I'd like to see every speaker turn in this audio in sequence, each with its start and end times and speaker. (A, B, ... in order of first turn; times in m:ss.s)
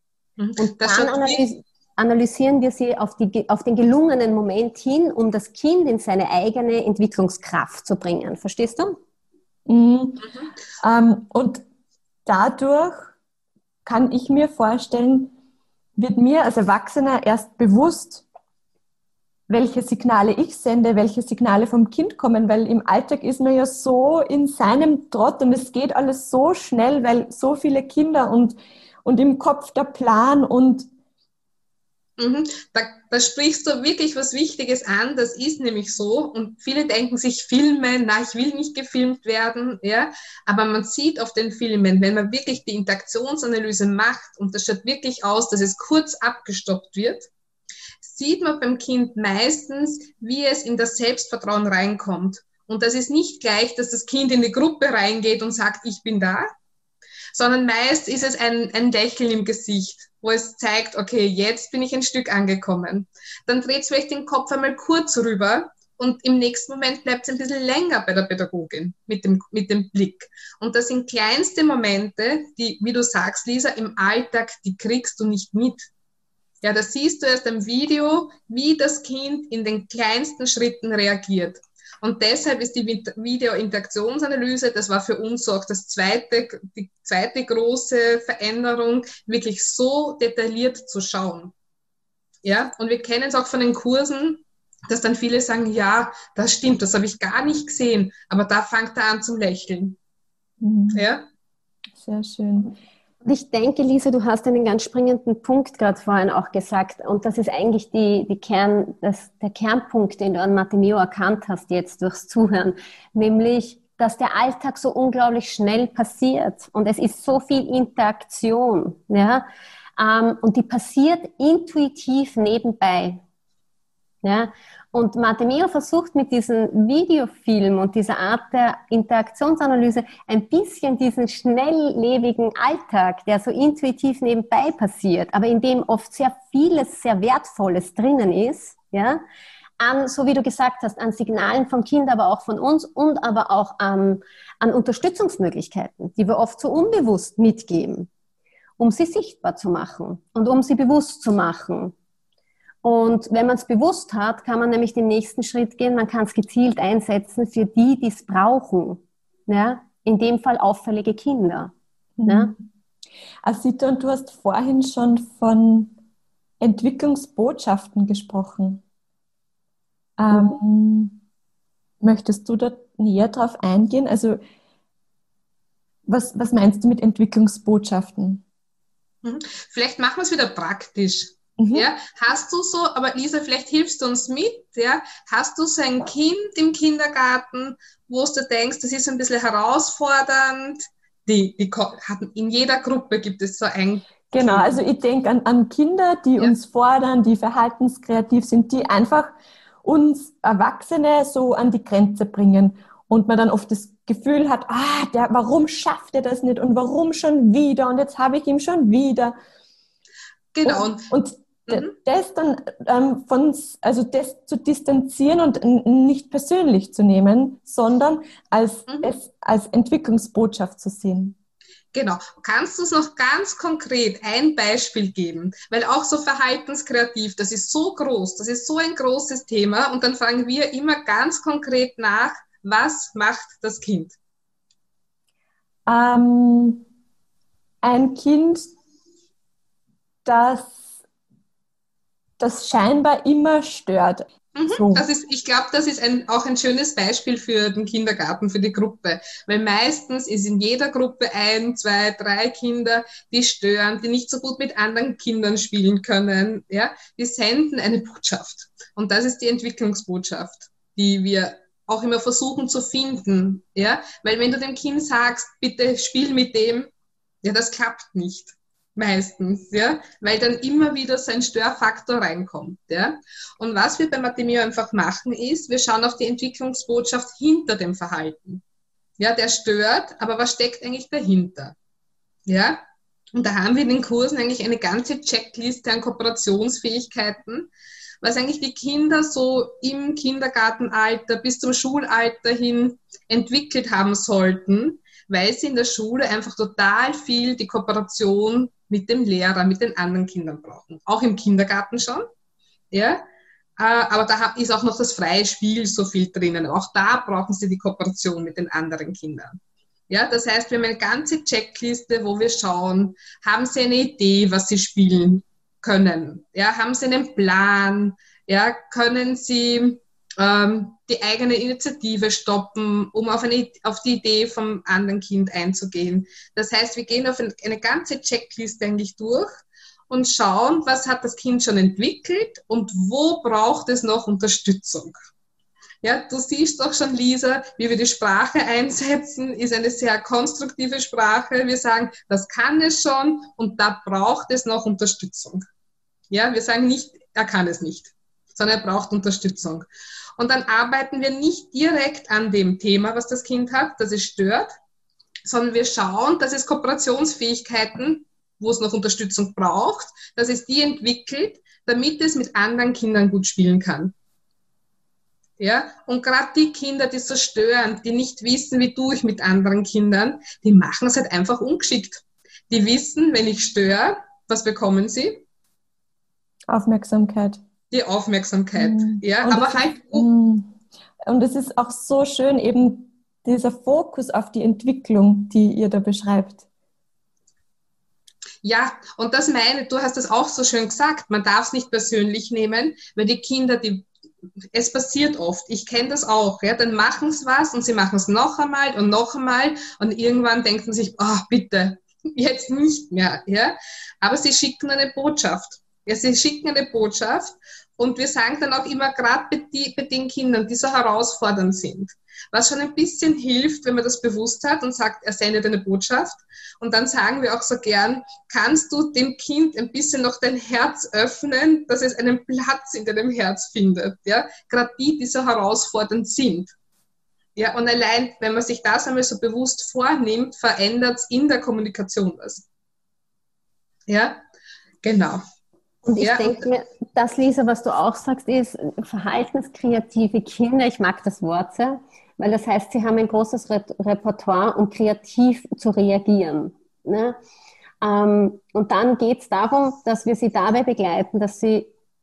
0:00.4-0:01.4 A
0:00.6-0:09.0 B
0:09.7-0:10.3 C
0:10.8-0:11.6 C
0:12.2-0:13.1 C
0:13.8-0:15.3 C
0:16.0-0:18.2 C
0:19.5-0:30.9 C
0:32.2-0:47.3 A
0:48.0-0:56.5 A
0:57.3-1:15.9 A
1:16.6-1:31.5 A
1:32.4-1:40.0 A
1:40.6-1:41.0 C
1:40.9-1:41.2 A
1:42.0-1:42.7 C
1:43.2-1:59.4 B
2:00.0-2:03.2 B
2:04.2-2:19.2 B
2:19.8-2:28.1 B
2:28.8-2:31.9 B
2:32.8-2:41.7 B
2:42.2-2:42.6 C
2:42.3-2:42.5 B
2:43.4-2:45.9 C
2:46.6-2:48.8 C
2:50.2-2:51.2 C
2:52.0-2:54.4 C
2:56.1-2:58.4 C
2:59.2-3:14.8 A
3:01.6-3:01.9 C
3:14.3-3:29.3 C
3:30.5-3:31.1 A
3:30.6-3:41.3 C
3:41.9-3:54.1 A
3:55.9-3:56.8 C
3:57.8-3:58.7 C
4:00.2-4:00.9 C
4:02.4-4:05.1 C
4:04.5-4:26.9 A
4:27.4-4:38.6 A
4:39.2-4:41.7 A
4:42.4-4:42.8 A
4:43.3-4:47.7 A
4:48.2-5:02.3 A
5:02.9-5:03.2 A
5:03.8-5:09.6 A
5:10.1-5:29.5 A
5:30.1-5:35.1 A
5:36.0-5:45.6 A
5:46.3-5:49.9 A
5:50.4-5:54.7 A
5:55.4-6:04.1 A
6:05.6-6:15.4 A
6:16.7-6:17.6 C
6:17.9-6:20.3 A
6:18.8-6:20.7 C
6:21.2-6:26.6 C
6:28.6-6:34.1 A
6:34.7-7:06.7 A
7:07.6-7:12.6 A
7:14.1-7:14.4 A
7:15.0-7:15.4 A
7:16.0-7:27.4 B
7:16.2-7:16.6 A
7:28.0-7:31.9 B